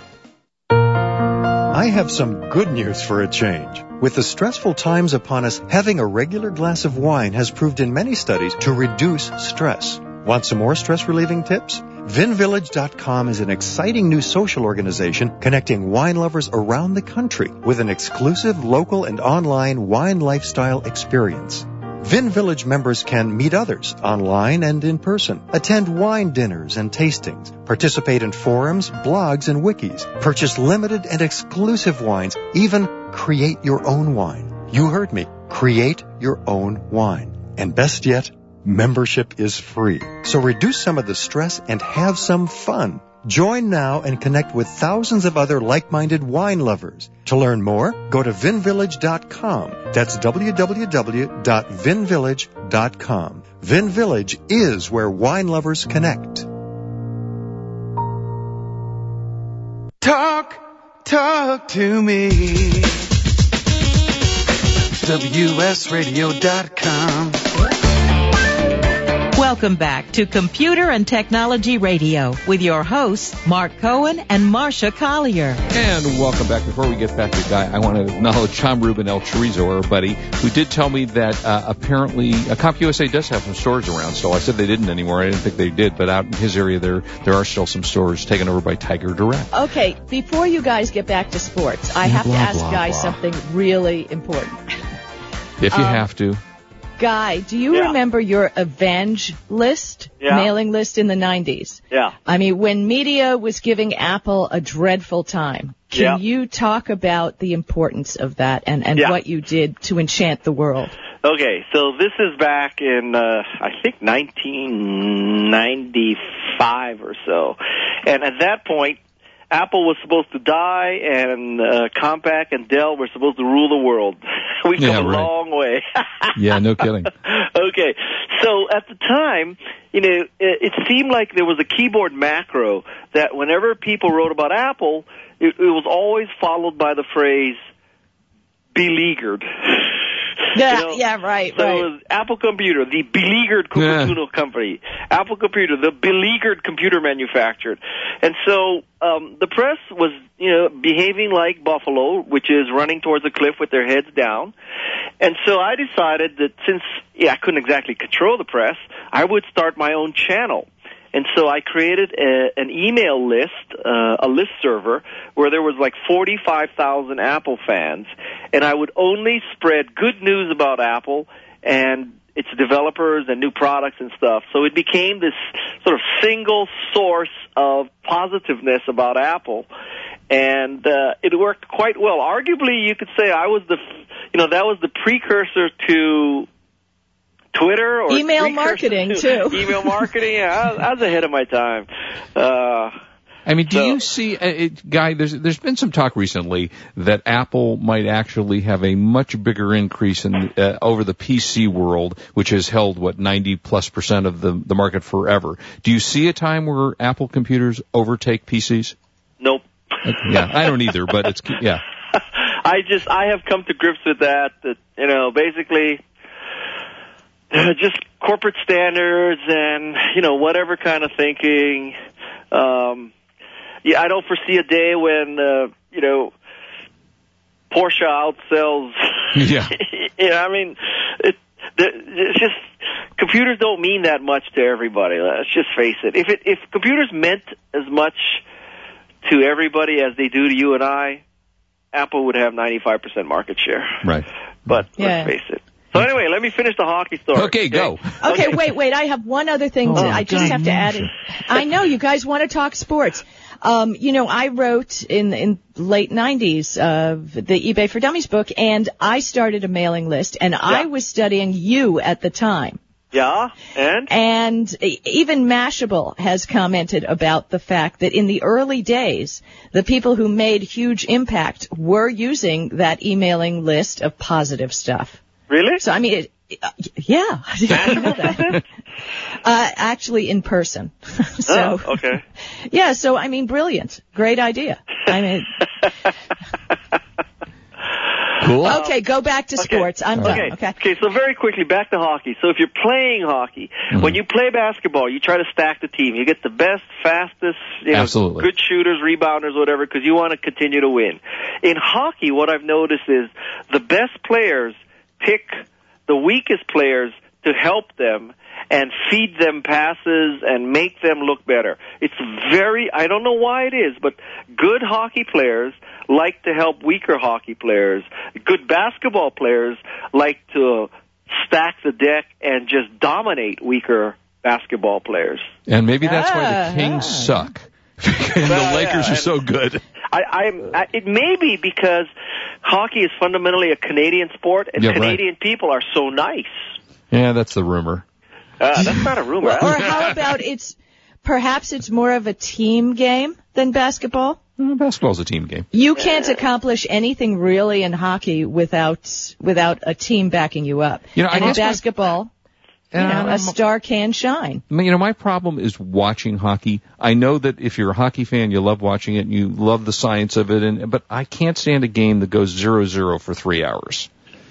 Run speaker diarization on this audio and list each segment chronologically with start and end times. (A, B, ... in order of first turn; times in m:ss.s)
0:01.2-0:56.5 A
1:00.0-1:03.0 B
1:05.0-1:07.5 B
1:09.4-1:15.6 C
1:15.7-1:29.5 D
1:29.5-1:34.6 E
1:32.0-1:33.2 D
1:35.6-1:36.4 D
1:35.7-1:36.1 E
1:37.0-1:50.9 E
1:40.2-1:40.5 F
1:45.9-1:46.2 F
1:51.2-1:59.0 F
1:59.5-2:06.3 F
2:04.8-2:05.3 D
2:06.4-2:07.1 D
2:07.2-2:17.6 F
2:18.7-2:20.0 F
2:20.5-2:21.9 E
2:20.6-2:21.0 F
2:21.5-2:34.5 F
2:23.8-2:24.2 D
2:35.2-2:59.7 F
3:00.3-3:03.8 F
3:04.3-3:06.5 F
3:07.5-3:12.9 F
3:08.1-3:09.9 E
3:13.5-3:29.0 D
3:13.7-3:14.0 F
3:29.4-3:30.7 F
3:30.0-3:31.8 D
3:32.1-3:36.0 F
3:37.5-3:41.9 F
3:42.5-3:43.1 F
3:43.8-3:46.3 F
3:47.7-3:52.6 F
3:49.4-3:49.8 D
3:53.2-3:58.4 F
3:59.2-4:01.2 F
4:01.9-4:04.0 F
4:04.7-4:08.5 F
4:05.0-4:05.3 E
4:07.3-4:08.6 D
4:08.2-4:22.8 E
4:09.9-4:11.1 D
4:10.0-4:10.4 F
4:23.1-4:24.1 F
4:24.1-4:35.2 E
4:35.5-4:35.8 F
4:35.8-4:38.6 E
4:37.8-4:38.6 D
4:37.8-4:38.6 F
4:39.4-4:42.0 E
4:41.5-4:42.2 F
4:42.7-4:45.6 E
4:48.4-4:48.8 D
4:48.6-4:48.9 F
4:48.6-4:50.8 E
4:49.6-5:25.5 F
4:50.2-4:50.4 D
4:53.9-4:54.2 D
4:57.9-4:58.5 D
5:25.7-5:29.8 D
5:26.0-5:27.3 E
5:28.4-5:29.3 F
5:30.1-5:32.1 F
5:32.6-5:36.6 F
5:34.8-5:35.2 D
5:37.1-5:38.0 D
5:38.6-5:40.0 F
5:39.4-5:44.4 E
5:39.6-5:40.2 D
5:44.6-5:45.7 D
5:45.7-5:52.3 E
5:51.2-5:51.8 D
5:52.9-5:53.6 D
5:52.9-5:54.6 E
5:54.7-6:04.1 D